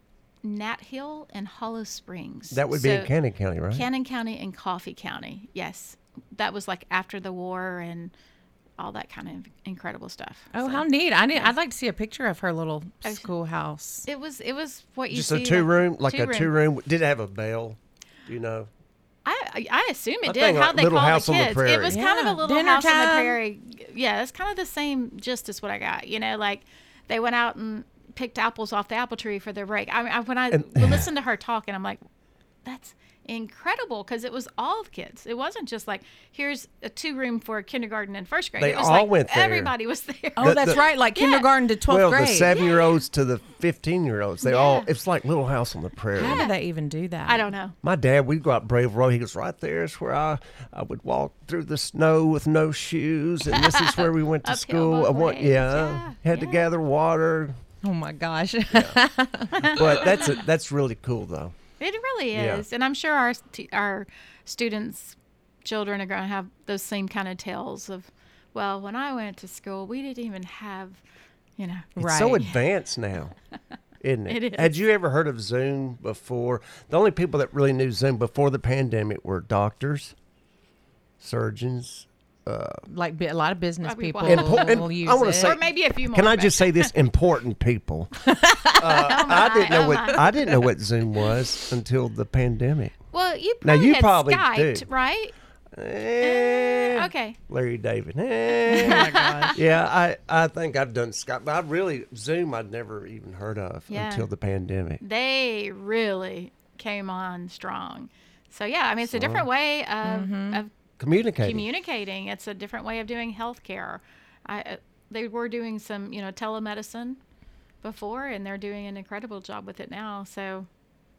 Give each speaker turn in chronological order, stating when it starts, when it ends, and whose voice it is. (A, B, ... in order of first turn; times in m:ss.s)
0:00.4-0:03.1 A
0:02.5-0:03.9 B
0:03.7-0:08.1 A
0:08.8-0:11.5 A
0:10.5-0:14.1 C
0:14.1-0:16.5 A
0:15.1-0:18.7 B
0:19.2-0:32.0 A
0:20.2-0:22.0 B
0:21.9-0:23.4 C
0:30.5-0:31.1 B
0:32.6-0:41.5 A
0:38.6-0:39.7 B
0:40.4-0:42.5 C
0:40.4-0:40.8 B
0:41.9-0:46.4 B
0:42.5-0:43.0 A
0:44.4-0:44.9 A
0:46.2-0:47.4 C
0:46.2-0:46.5 A
0:47.3-0:47.8 A
0:47.8-0:57.6 B
0:53.5-0:56.7 A
0:57.8-0:59.8 C
0:58.7-0:59.0 B
0:59.5-1:00.3 A
0:59.7-1:01.6 B
1:01.8-1:11.0 A
1:02.3-1:02.6 B
1:11.6-1:11.9 A
1:12.0-1:12.4 C
1:12.0-1:13.3 B
1:14.0-1:20.1 B
1:14.3-1:14.7 A
1:21.2-1:22.8 B
1:22.9-1:25.5 C
1:23.8-1:24.9 A
1:24.2-1:33.0 B
1:25.4-1:26.9 A
1:28.3-1:28.8 C
1:28.8-1:30.6 A
1:33.1-1:35.3 A
1:33.6-1:34.9 B
1:35.7-1:45.0 B
1:36.2-1:37.4 A
1:38.7-1:39.6 C
1:38.7-1:39.6 A
1:43.9-1:44.3 A
1:45.0-1:50.7 A
1:49.0-1:49.5 B
1:50.0-1:50.6 C
1:51.0-1:51.7 B
1:51.4-1:57.2 A
1:57.8-2:00.7 A